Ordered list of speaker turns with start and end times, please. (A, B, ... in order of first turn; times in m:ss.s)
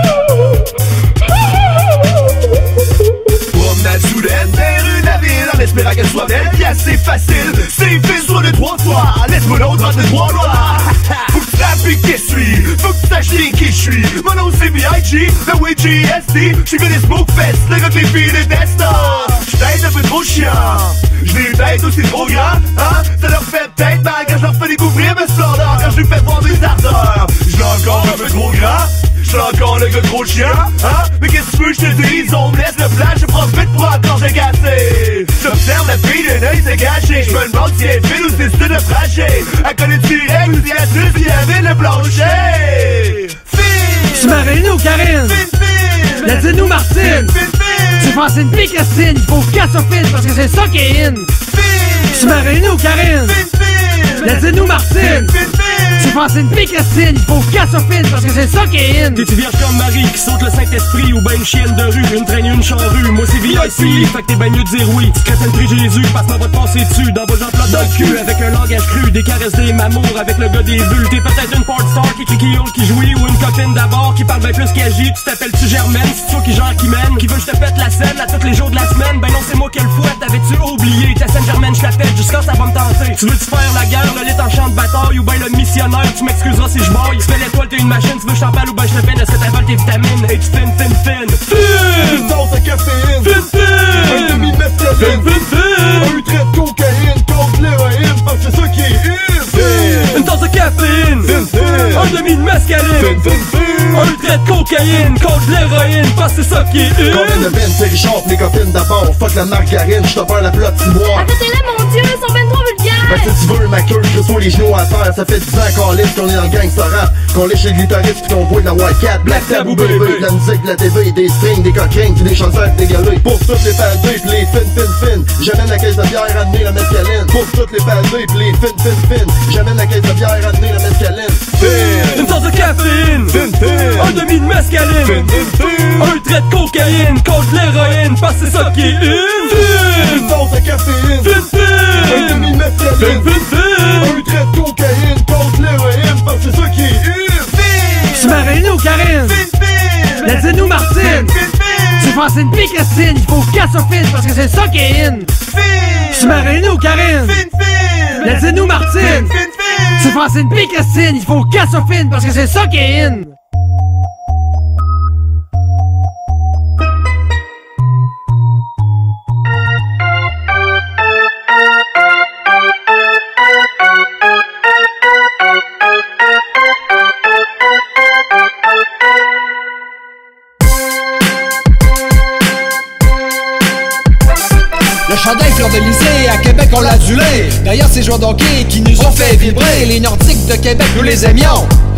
0:03.5-0:43.4 A
0:44.0-0:45.5 B
0:45.8-0:46.1 C
0:46.2-0:47.4 B
0:48.0-0:51.4 B
0:51.7-0:52.0 C
0:52.1-0:53.4 B
0:53.4-0:54.4 C
0:54.2-0:55.4 B
0:55.1-0:56.1 C
0:56.0-0:59.3 B
0:59.1-1:32.3 D
1:07.7-1:08.0 C
1:31.8-1:40.3 C
1:33.2-1:36.1 D
1:40.1-1:47.6 D
1:41.2-1:42.2 C
1:42.9-1:44.2 C
1:47.0-1:51.3 C
1:51.1-1:53.4 E
1:53.0-2:12.4 C
1:59.3-2:00.2 D
2:12.1-2:20.3 D
2:13.3-2:14.3 C
2:15.0-2:16.2 C
2:19.5-2:28.5 C
2:21.2-2:24.1 D
2:28.1-2:29.5 B
2:29.2-2:32.1 C
2:30.2-2:31.3 B
2:32.0-2:35.3 B
2:35.5-2:36.5 C
2:36.1-2:37.4 B
2:37.2-2:40.1 C
2:38.2-2:39.4 B
2:40.0-2:43.3 B
3:05.1-3:11.7 F